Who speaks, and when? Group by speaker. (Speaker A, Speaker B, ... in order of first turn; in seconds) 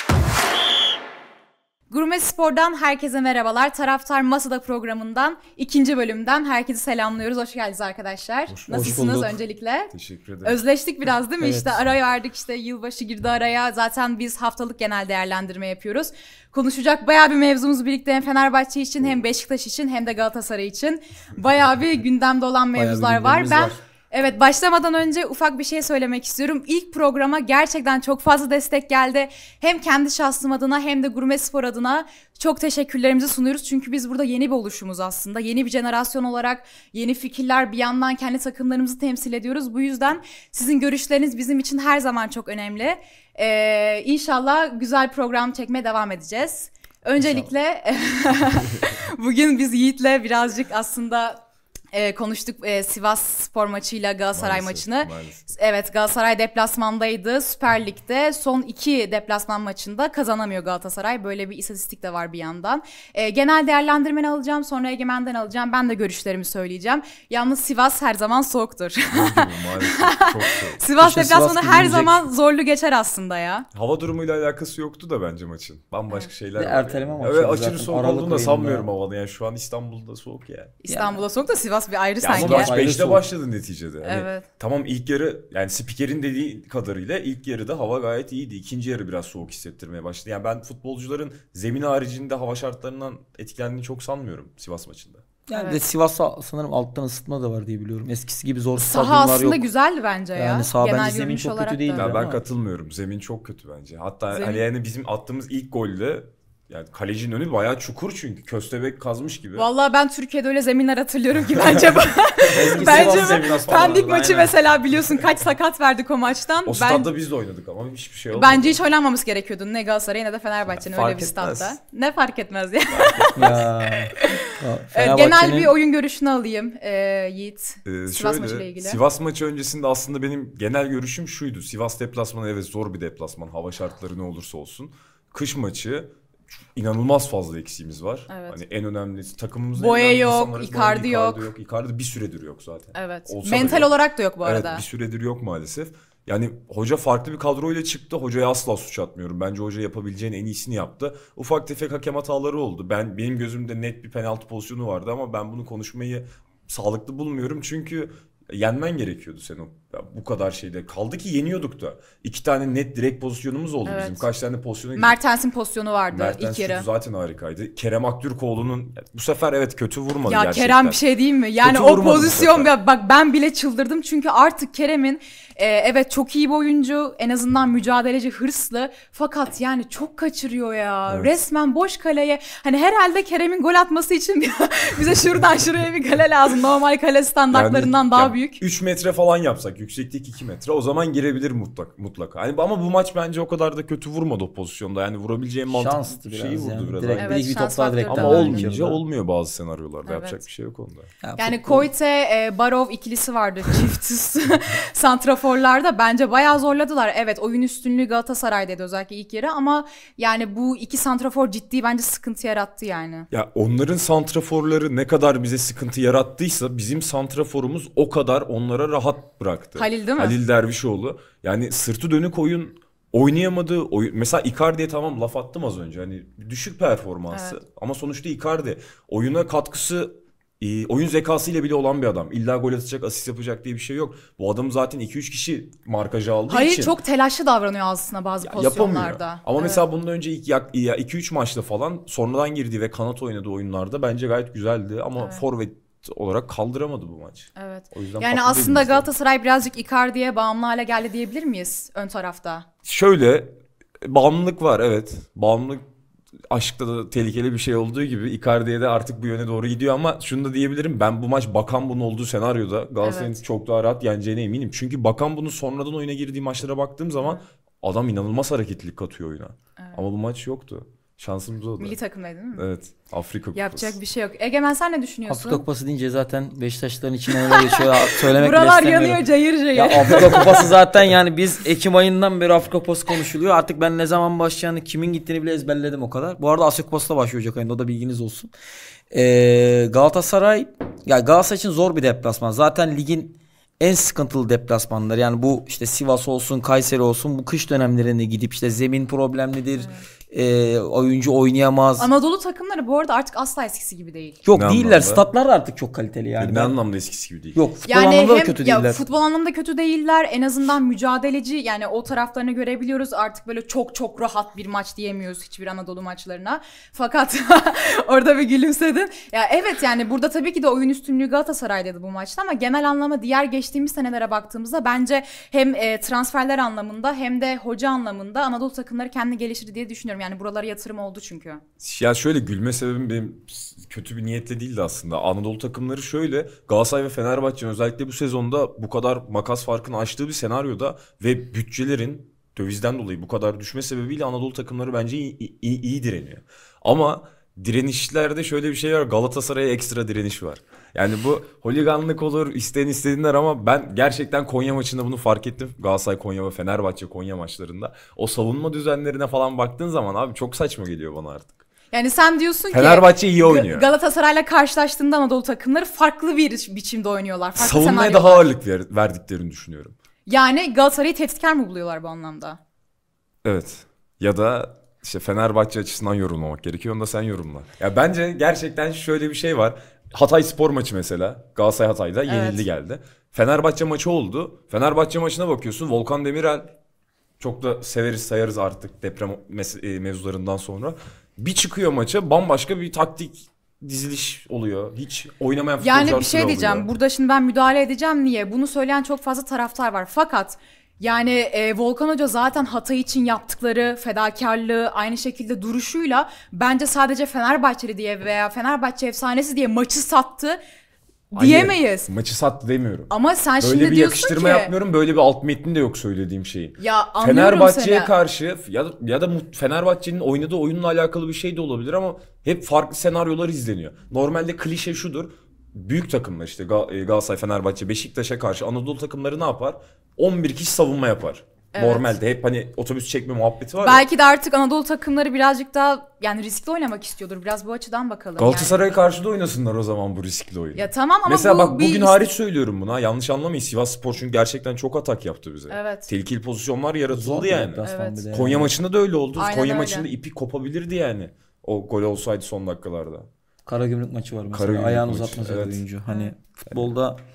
Speaker A: 1.9-9.9, 10.4-51.4, 51.9-73.7, 80.8-82.7, 84.0-84.5, 95.5-95.8, 98.8-102.1, 104.3-104.6, 109.5-117.1, 118.3-123.5, 124.1-129.0, 138.3-138.6, 139.7-141.5, 142.9-144.8, 163.8-164.3, 164.9-166.8, 170.3-188.6, 197.2-198.7, 200.1-200.4, 201.4-213.3, 219.8-220.3, 227.3-227.6, 236.5-239.8, 245.2-245.4, 247.6-252.7, 263.0-263.4, 269.8-270.0, 271.8-272.7, 273.5-275.6, 277.3-280.7, 299.8-300.1, 302.0-304.4, 307.9-331.6, 361.9-368.4, 370.3-372.6, 382.3-382.6, 395.8-410.6, 411.3-412.1, 413.1-414.7, 416.8-418.1, 431.7-432.1, 433.8-438.8, 440.7-442.3, 445.7-446.1, 447.8-448.2, 449.4-450.1, 456.1-456.3
Speaker B: 8.5-9.3, 9.9-10.6, 54.3-55.4, 69.1-70.8, 73.7-80.7, 82.2-95.2, 101.9-109.7, 112.5-114.0, 116.6-118.8, 120.7-121.8, 123.0-123.5, 127.8-136.1, 136.7-165.2, 166.1-171.0, 171.6-172.7, 181.1-181.3, 187.5-201.1, 213.3-237.0, 238.4-249.1, 252.8-255.8, 256.5-272.0, 272.6-274.0, 304.5-305.2, 306.4-307.6, 331.8-361.6, 362.7-363.9, 367.6-369.9, 373.4-386.7, 387.4-396.9, 411.4-434.0, 438.4-453.3, 454.5-455.8
Speaker C: 8.7-9.3, 11.4-11.8, 22.7-23.8, 47.2-47.5, 71.0-72.2, 76.5-78.9, 80.9-81.2, 82.3-83.2, 95.5-99.7, 100.3-102.4, 112.5-114.5, 123.3-125.7, 195.7-199.0, 201.2-201.9, 275.3-288.5, 289.1-302.1, 304.4-306.8, 307.5-309.0, 447.1-448.8, 453.6-457.2